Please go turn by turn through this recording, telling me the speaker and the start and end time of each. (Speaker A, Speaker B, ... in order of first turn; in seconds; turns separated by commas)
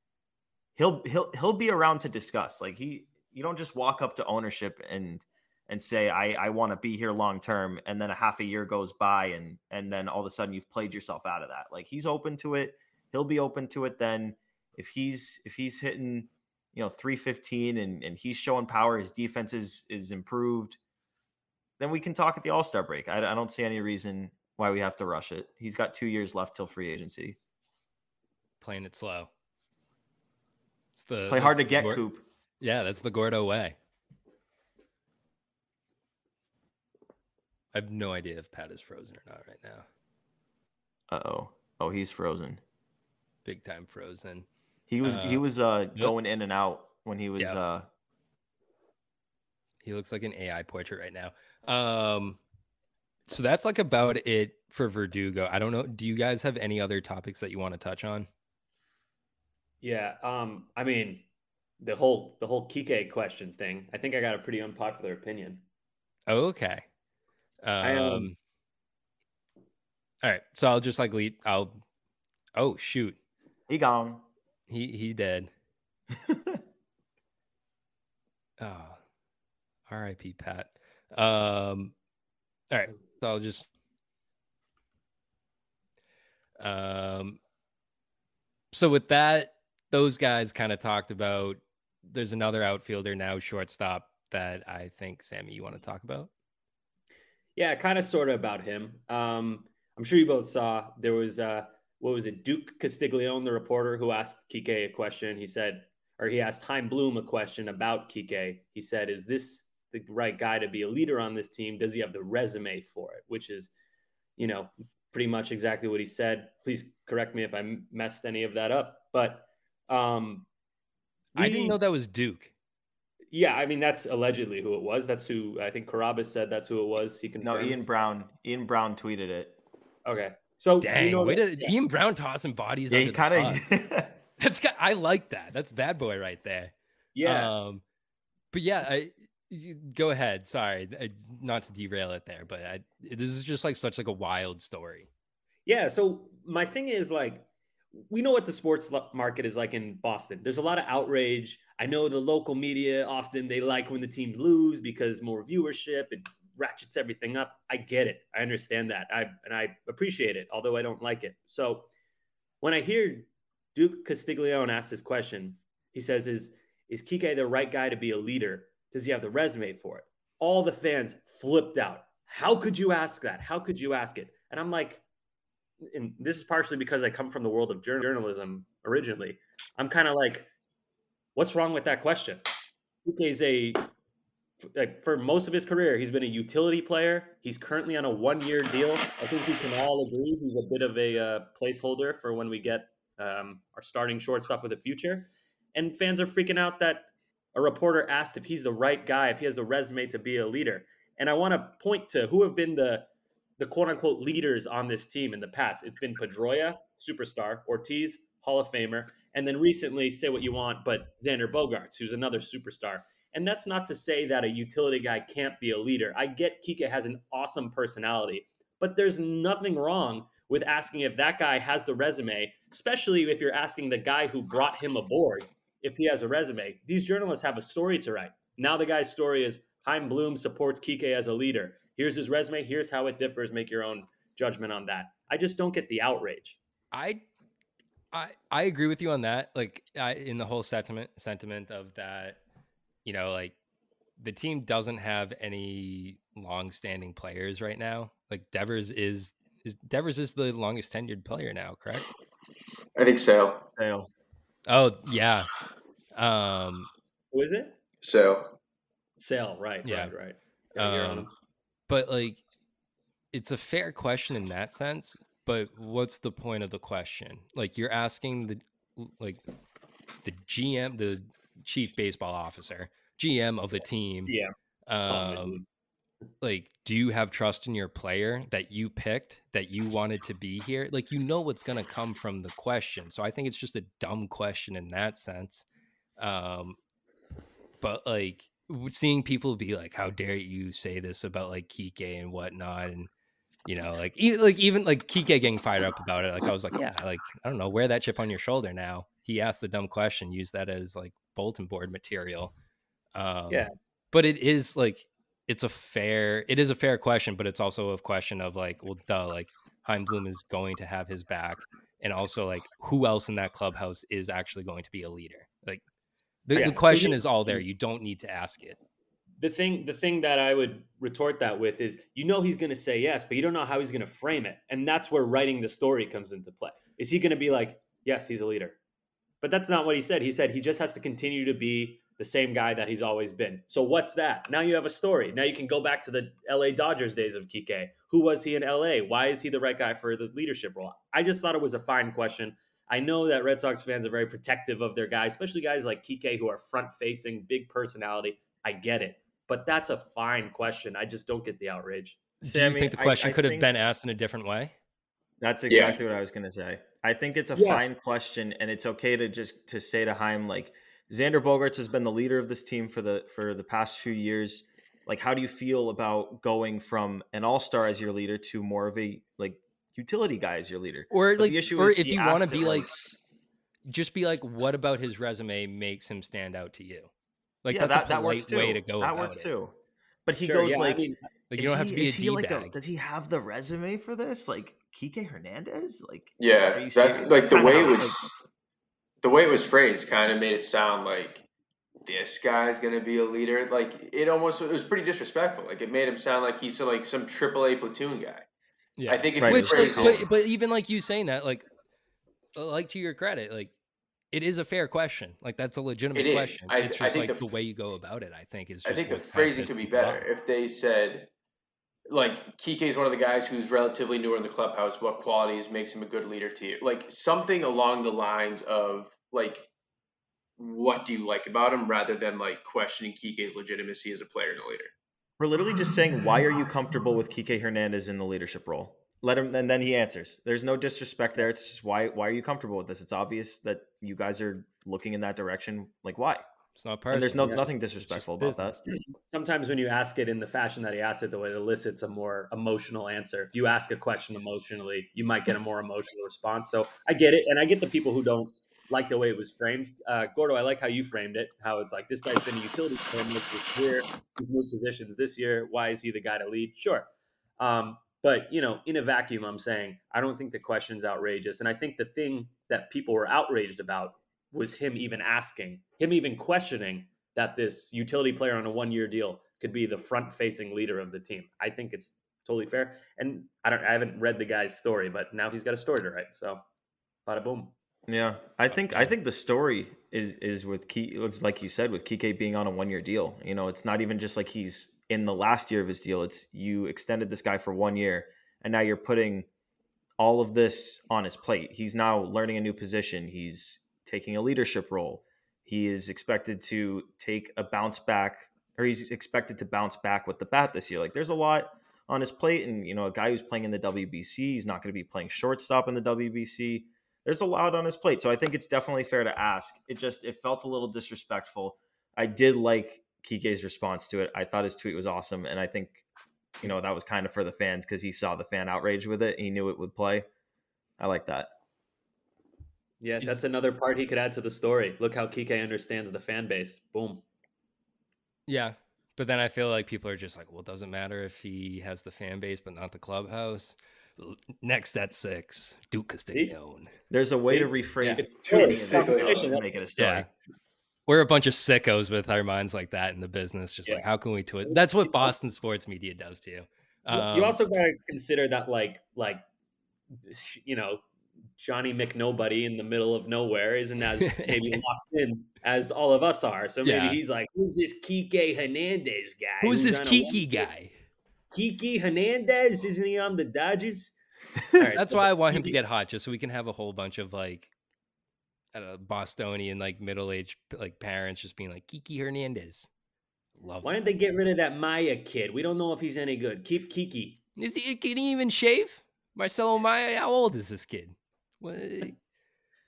Speaker A: 0.8-20.8, Speaker A: 21.8-27.4, Speaker B: 28.6-29.3, Speaker B: 31.0-32.0, Speaker A: 31.3-32.2, Speaker B: 32.6-33.8, Speaker B: 37.7-39.9, Speaker A: 41.1-42.6, Speaker B: 43.5-44.5, Speaker A: 44.9-47.9, Speaker B: 45.0-45.4, Speaker B: 49.8-52.4, Speaker B: 53.3-58.3, Speaker C: 59.8-61.2, Speaker C: 61.8-65.6, Speaker B: 66.3-66.8, Speaker B: 67.6-68.3, Speaker C: 67.8-68.3, Speaker B: 70.2-71.8, Speaker B: 72.6-73.2, Speaker A: 73.7-74.3, Speaker B: 74.7-75.5, Speaker A: 76.2-76.6, Speaker B: 78.6-79.0, Speaker B: 79.9-81.9, Speaker B: 82.7-83.7, Speaker B: 86.6-87.4, Speaker B: 88.7-96.3, Speaker C: 97.6-113.7, Speaker C: 114.4-120.5, Speaker C: 121.3-121.8, Speaker B: 121.4-122.5, Speaker C: 123.3-127.9, Speaker A: 127.4-129.6, Speaker C: 130.1-131.8, Speaker B: 130.8-133.6, Speaker A: 132.9-134.2, Speaker B: 134.4-137.8, Speaker C: 137.2-137.5, Speaker B: 138.5-145.1, Speaker C: 145.7-161.9, Speaker C: 162.6-175.0, Speaker C: 175.9-180.5, Speaker C: 181.4-182.4, Speaker C: 183.1-183.9, Speaker C: 184.8-203.1, Speaker C: 203.6-236.6, Speaker B: 236.9-237.2, Speaker B: 238.1-242.4, Speaker B: 243.1-243.5, Speaker B: 244.2-252.1, Speaker D: 253.0-253.7, Speaker A: 253.8-254.1, Speaker B: 254.7-255.5, Speaker B: 256.1-256.9, Speaker C: 257.3-257.8, Speaker D: 258.0-258.6, Speaker C: 259.2-261.3, Speaker B: 259.9-260.1, Speaker B: 260.8-261.3, Speaker B: 261.9-262.4, Speaker B: 263.3-269.4, Speaker B: 270.2-274.3, Speaker C: 274.3-274.5, Speaker B: 274.9-275.6, Speaker C: 275.1-275.6, Speaker B: 276.4-285.6, Speaker B: 286.2-286.8, Speaker B: 287.8-293.1, Speaker B: 293.7-302.5, Speaker B: 303.1-315.8, Speaker B: 316.5-318.8, Speaker C: 316.5-317.6, Speaker A: 316.6-316.8, Speaker C: 319.4-328.8, Speaker C: 329.4-352.3, Speaker B: 352.4-354.7, Speaker A: 352.4-353.7, Speaker A: 355.4-372.9, Speaker D: 355.7-356.0, Speaker C: 357.6-357.9, Speaker B: 371.1-372.9, Speaker B: 373.9-377.1, Speaker B: 377.6-379.5, Speaker A: 377.7-388.2, Speaker C: 380.4-381.3, Speaker B: 381.5-382.7, Speaker D: 386.4-388.3, Speaker D: 389.2-391.4, Speaker D: 392.1-398.4, Speaker B: 399.0-401.7, Speaker D: 399.1-400.3, Speaker A: 399.4-400.2, Speaker B: 402.6-403.7, Speaker B: 404.3-410.3, Speaker D: 406.1-407.5, Speaker D: 408.9-411.3, Speaker D: 412.1-419.7, Speaker D: 420.6-424.9, Speaker A: 425.4-436.4, Speaker B: 436.8-439.0, Speaker A: 437.1-438.8, Speaker C: 438.9-476.6, Speaker C: 477.3-477.7, Speaker A: 478.1-489.5, Speaker B: 478.7-479.1, Speaker A: 490.2-516.0, Speaker A: 516.6-520.3, Speaker A: 521.0-521.5, Speaker C: 523.0-527.2, Speaker B: 528.5-536.9, Speaker A: 537.1-540.3, Speaker C: 537.5-539.7, Speaker D: 538.4-539.5, Speaker B: 540.0-540.3, Speaker B: 541.1-547.6, Speaker C: 544.6-545.4, Speaker C: 547.1-549.4, Speaker C: 550.2-551.0, Speaker C: 551.6-560.7, Speaker B: 554.2-554.8, Speaker B: 556.8-557.2, Speaker B: 559.6-560.9, Speaker C: 561.5-564.1, Speaker C: 564.7-565.8, Speaker B: 564.9-567.7, Speaker B: 568.7-572.9, Speaker B: 573.6-573.9, Speaker C: 573.8-577.4, Speaker B: 577.6-582.2